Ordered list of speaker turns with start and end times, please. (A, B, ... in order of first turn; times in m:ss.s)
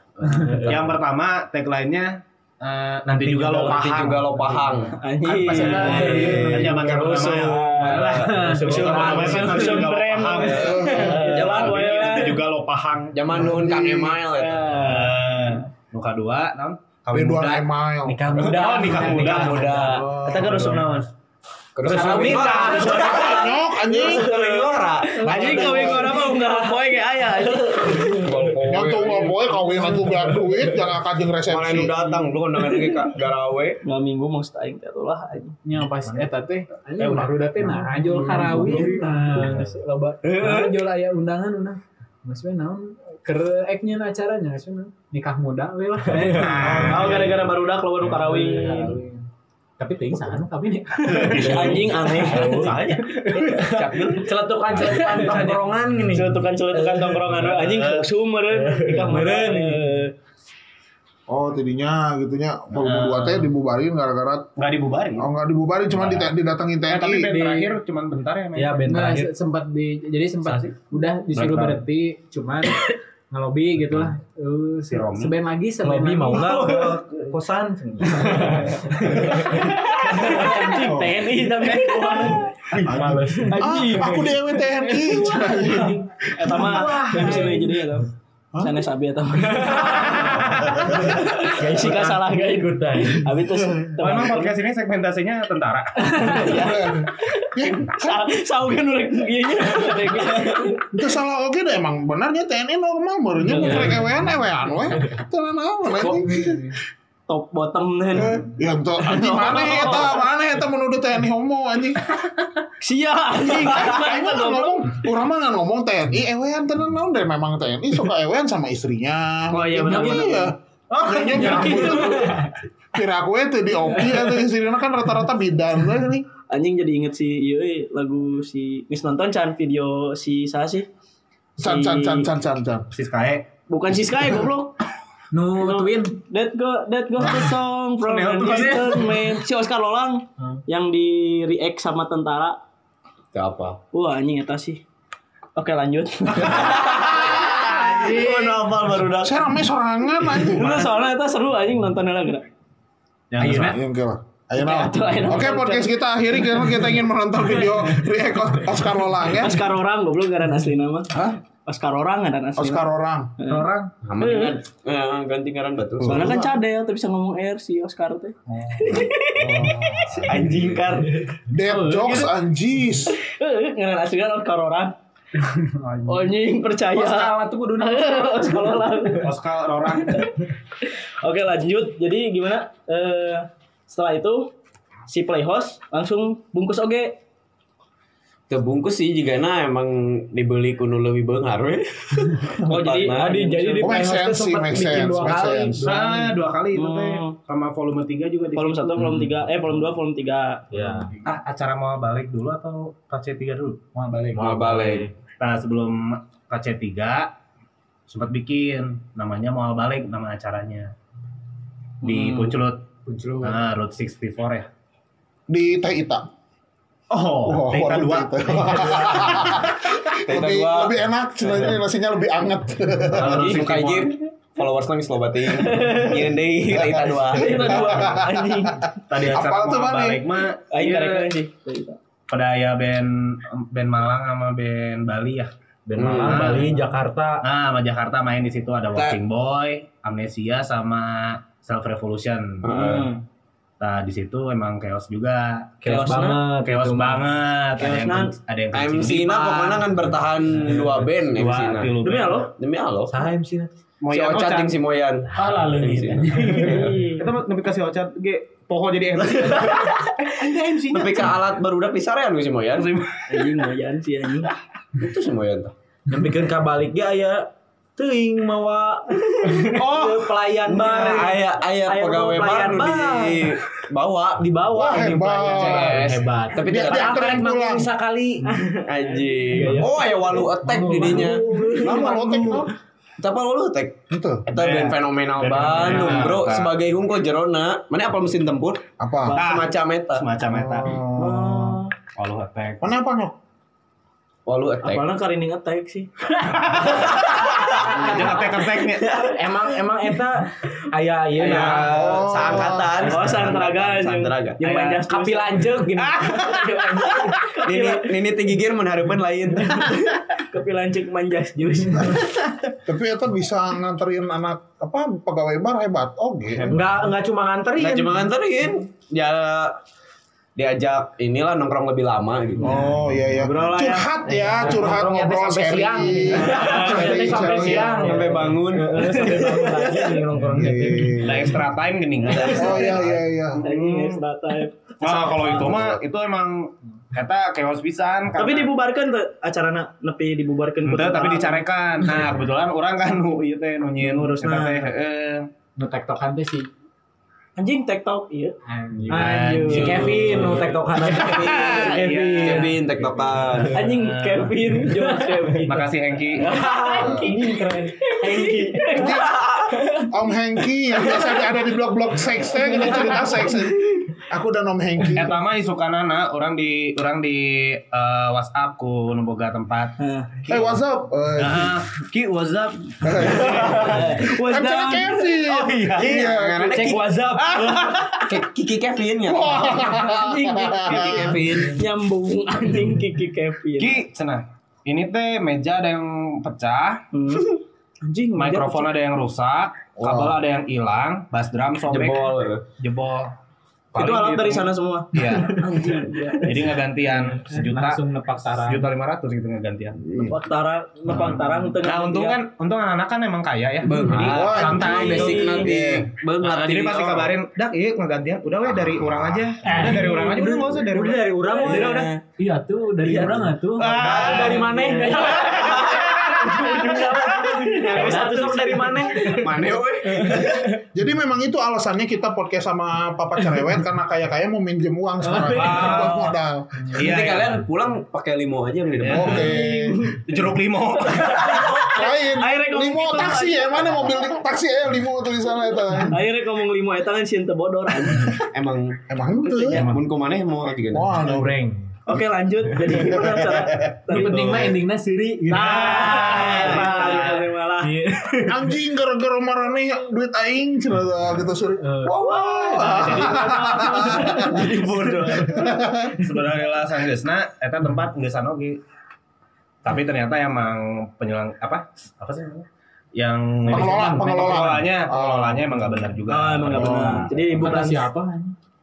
0:00.2-0:00.6 A
0:00.3-0:01.0 B
0:00.6-0:02.1 C
0:02.6-0:04.6 C
0:03.0-0:03.9 B
0:03.5-0:05.0 D
0:05.0-0:06.5 E
0:05.3-0:13.6 C
0:05.4-0:07.0 A
0:05.5-0:08.0 D
0:05.6-0:10.0 B
0:07.8-0:09.8 A
0:08.8-0:09.4 D
0:09.0-0:12.4 E
0:10.3-0:12.2 D
0:10.5-0:11.2 F
0:13.1-0:14.9 D
0:13.3-0:14.1 F
0:14.6-0:17.7 C
0:14.7-0:15.1 B
0:17.1-0:18.2 F
0:18.0-0:21.0 B
0:18.4-0:21.0 C
0:18.5-0:20.0 D
0:19.8-0:20.5 F
0:20.4-0:20.8 E
0:21.8-0:26.3 D
0:21.8-0:23.2 C
0:21.9-0:22.9 B
0:22.6-0:24.3 F
0:23.9-0:28.3 E
0:25.3-0:26.8 B
0:28.0-0:29.6 D
0:28.6-0:31.9 F
0:31.5-0:33.8 D
0:32.6-0:33.0 E
0:33.8-0:35.6 E
0:35.6-0:47.2 A
0:37.0-0:37.3 C
0:38.4-0:38.9 B
0:38.5-0:39.6 C
0:40.2-0:40.7 D
0:46.2-0:47.4 C
0:46.2-0:46.7 B
0:46.6-0:49.0 E
0:48.0-0:49.2 A
0:49.8-0:52.7 A
0:51.1-0:51.8 C
0:51.1-0:53.1 E
0:51.4-0:57.5 B
0:53.6-0:54.4 D
0:54.8-0:55.5 A
0:56.1-1:00.1 E
0:57.4-0:58.1 C
0:58.5-1:00.0 B
1:01.3-1:04.5 F
1:02.8-1:03.5 C
1:04.6-1:05.3 C
1:05.2-1:07.4 F
1:05.9-1:06.3 C
1:06.8-1:08.9 C
1:07.3-1:07.7 A
1:08.5-1:09.3 B
1:08.8-1:16.8 A
1:10.4-1:10.7 C
1:11.3-1:11.8 C
1:14.9-1:15.4 C
1:15.8-1:19.7 B
1:18.1-1:18.6 A
1:19.3-1:19.6 A
1:19.4-1:22.5 E
1:20.1-1:20.7 A
1:20.3-1:20.7 B
1:21.8-1:22.4 A
1:22.0-1:23.6 B
1:23.4-1:25.8 E
1:23.6-1:26.0 F
1:26.4-1:34.5 E
1:26.5-1:27.6 B
1:27.1-1:27.5 A
1:30.9-1:33.4 B
1:34.0-1:36.5 C
1:36.1-1:40.8 E
1:36.4-1:38.3 F
1:40.9-1:46.6 F
1:43.4-1:44.1 E
1:46.0-1:46.6 E
1:46.3-1:46.6 A
1:47.3-1:48.4 E
1:48.1-1:52.0 F
1:49.0-1:50.2 E
1:52.8-1:55.0 E
1:53.4-2:02.4 F
1:59.5-2:00.5 E
1:59.9-2:00.2 A
2:01.1-2:02.4 E
2:01.6-2:01.8 A
2:02.9-2:06.2 F
2:06.5-2:10.9 E
2:11.6-2:12.8 F
2:11.6-2:12.3 E
2:12.9-2:13.5 C
2:13.7-2:14.7 E
2:15.3-2:16.2 A
2:15.6-2:22.6 E
2:18.0-2:19.2 C
2:23.3-2:23.8 D
2:23.9-2:24.8 E
2:25.6-2:27.6 E
2:26.4-2:29.4 D
2:27.7-2:28.6 A
2:29.2-2:30.9 F
2:30.2-2:32.4 E
2:33.3-2:33.8 C
2:33.4-2:39.6 F
2:34.6-2:36.8 E
2:39.3-2:41.1 E
2:41.6-2:42.8 E
2:42.6-2:43.3 F
2:43.4-2:44.6 E
2:43.5-2:43.8 A
2:44.0-2:46.4 D
2:46.0-2:46.5 F
2:46.1-2:50.3 E
2:48.5-2:48.8 A
2:49.4-2:50.3 F
2:50.1-2:51.2 D
2:51.5-2:53.2 F
2:51.8-2:52.1 A
2:53.1-2:54.9 E
2:55.4-2:56.3 A
2:56.1-2:59.3 E
2:57.0-2:57.9 C
2:57.8-2:59.2 A
2:59.2-3:00.2 C
3:00.1-3:04.5 E
3:05.1-3:07.2 E
3:08.5-3:13.5 D
3:12.6-3:13.9 E
3:13.1-3:15.9 B
3:13.8-3:15.8 F
3:15.5-3:16.3 A
3:15.8-3:18.9 C
3:16.7-3:17.4 E
3:18.6-3:20.6 E
3:20.7-3:21.1 B
3:21.2-3:23.8 C
3:23.9-3:24.4 A
3:24.3-3:25.1 B
3:24.3-3:25.1 D
3:25.4-3:27.3 C
3:28.1-3:30.9 C
3:32.0-3:32.8 C
3:32.0-3:32.6 E
3:33.1-3:33.6 A
3:33.4-3:34.7 C
3:35.5-3:36.2 F
3:37.1-3:39.7 C
3:37.4-3:43.5 F
3:40.2-3:40.9 D
3:43.1-3:44.1 C
3:43.2-3:48.1 D
3:45.7-3:46.2 E
3:47.3-3:48.8 E
3:47.8-3:50.2 F
3:49.1-3:51.3 C
3:50.7-3:52.0 E
3:52.3-3:56.8 C
3:55.9-3:57.4 B
3:56.0-3:56.6 D
3:57.4-4:03.1 C
3:58.9-3:59.2 D
4:02.6-4:03.1 D
4:03.8-4:10.0 C
4:05.8-4:07.2 B
4:05.9-4:06.4 E
4:07.8-4:08.3 E
4:08.7-4:13.3 D
4:10.7-4:12.5 C
4:12.0-4:12.5 E
4:13.1-4:13.7 B
4:14.0-4:14.8 C
4:14.1-4:17.0 D
4:15.3-4:16.8 A
4:16.4-4:21.4 C
4:16.6-4:17.3 E
4:20.9-4:23.0 D
4:22.7-4:23.3 C
4:23.3-4:24.5 E
4:25.0-4:25.7 D
4:26.1-4:33.5 B
4:30.6-4:37.4 D
4:34.7-4:36.1 F
4:35.0-4:38.5 B
4:36.0-4:36.5 A
4:36.6-4:37.9 F
4:38.5-4:40.1 E
4:38.8-4:41.4 D
4:39.6-4:39.9 A
4:40.6-4:41.9 A
4:41.0-4:42.0 B
4:41.8-4:42.7 F
4:43.2-4:50.3 D
4:44.1-4:44.4 F
4:44.5-4:46.7 C
4:49.0-4:49.4 F
4:49.3-4:51.0 C
4:50.4-4:51.8 F
4:51.2-4:51.9 E
4:52.2-4:52.9 C
4:52.8-4:53.3 F
4:54.4-4:55.1 D
4:54.8-4:56.4 E
4:56.4-4:59.2 C
4:57.0-4:58.5 D
4:57.8-4:58.4 E
4:59.3-5:02.1 B
5:01.3-5:04.6 D
5:01.9-5:02.9 F
5:03.0-5:05.8 E
5:03.0-5:03.3 B
5:04.7-5:07.5 B
5:07.0-5:08.1 E
5:07.6-5:10.1 D
5:10.4-5:12.4 E
5:12.8-5:16.8 F
5:16.5-5:16.9 C
5:16.7-5:18.3 B
5:17.8-5:19.8 D
5:20.6-5:22.9 D
5:22.6-5:28.1 F
5:23.4-5:24.1 E
5:24.3-5:31.5 B
5:26.4-5:30.1 D
5:30.5-5:31.4 F
5:31.2-5:34.2 C
5:32.5-5:33.6 F
5:33.6-5:35.6 E
5:35.0-5:38.7 C
5:38.3-5:41.6 E
5:40.8-5:45.4 C
5:44.0-5:44.9 E
5:45.8-5:46.7 A
5:47.6-5:48.6 E
5:48.6-5:49.6 A
5:49.1-5:52.8 B
5:49.1-5:52.8 C
5:49.7-5:53.9 D
5:53.7-5:55.9 E
5:53.9-5:54.8 C
5:55.6-5:56.6 C
5:56.4-6:00.1 E
5:56.5-5:59.1 B
5:57.0-5:57.2 F
5:58.9-6:05.4 F
6:01.0-6:01.6 E
6:02.6-6:03.6 E
6:05.1-6:09.9 C
6:10.0-6:10.3 E
6:10.4-6:10.8 C
6:10.5-6:11.8 F
6:11.4-6:14.0 C
6:13.0-6:16.8 F
6:13.7-6:15.4 E
6:15.4-6:17.9 B
6:15.9-6:17.1 D
6:18.2-6:19.8 D
6:19.2-6:21.3 F
6:19.6-6:24.0 E
6:20.8-6:21.8 D
6:23.8-6:27.0 C
6:27.1-6:28.9 E
6:28.3-6:33.3 C
6:30.0-6:30.4 F
6:31.9-6:32.6 D
6:33.9-6:38.0 C
6:33.9-6:36.7 E
6:37.5-6:38.9 A
6:38.6-6:40.0 C
6:40.0-6:40.4 F
6:40.2-6:42.4 E
6:41.1-6:51.7 C
6:43.8-6:47.4 D
6:44.3-6:45.1 F
6:44.6-6:45.7 E
6:49.7-6:52.2 B
6:49.8-6:50.5 A
6:51.5-6:51.9 E
6:51.6-6:52.2 D
6:52.4-6:54.3 A
6:53.1-6:59.4 B
6:53.8-6:56.4 C
6:53.8-6:54.7 D
6:55.2-6:55.8 A
6:55.5-6:56.4 D
6:56.4-6:56.9 A
6:57.4-6:59.3 E
6:57.8-6:58.6 D
6:59.2-7:00.7 D
7:00.9-7:06.7 F
7:05.3-7:06.0 E
7:05.5-7:06.3 C
7:06.9-7:07.6 C
7:06.9-7:09.5 D
7:09.0-7:09.5 C
7:09.0-7:10.0 F
7:09.2-7:10.4 E
7:10.2-7:11.9 C
7:11.0-7:14.3 E
7:11.9-7:16.2 F
7:16.1-7:18.4 E
7:18.5-7:21.2 D
7:19.1-7:19.9 F
7:20.9-7:21.5 F
7:21.2-7:21.8 B
7:22.0-7:24.7 E
7:24.1-7:26.4 A
7:24.2-7:24.5 D
7:25.5-7:27.5 C
7:25.5-7:28.0 E
7:27.8-7:28.4 A
7:28.4-7:36.1 F
7:31.8-7:32.2 A
7:32.2-7:35.7 E
7:36.2-7:38.8 C
7:39.8-7:47.8 C
7:43.6-7:45.7 F
7:46.3-7:48.0 E
7:46.7-7:47.3 F
7:47.5-7:48.5 A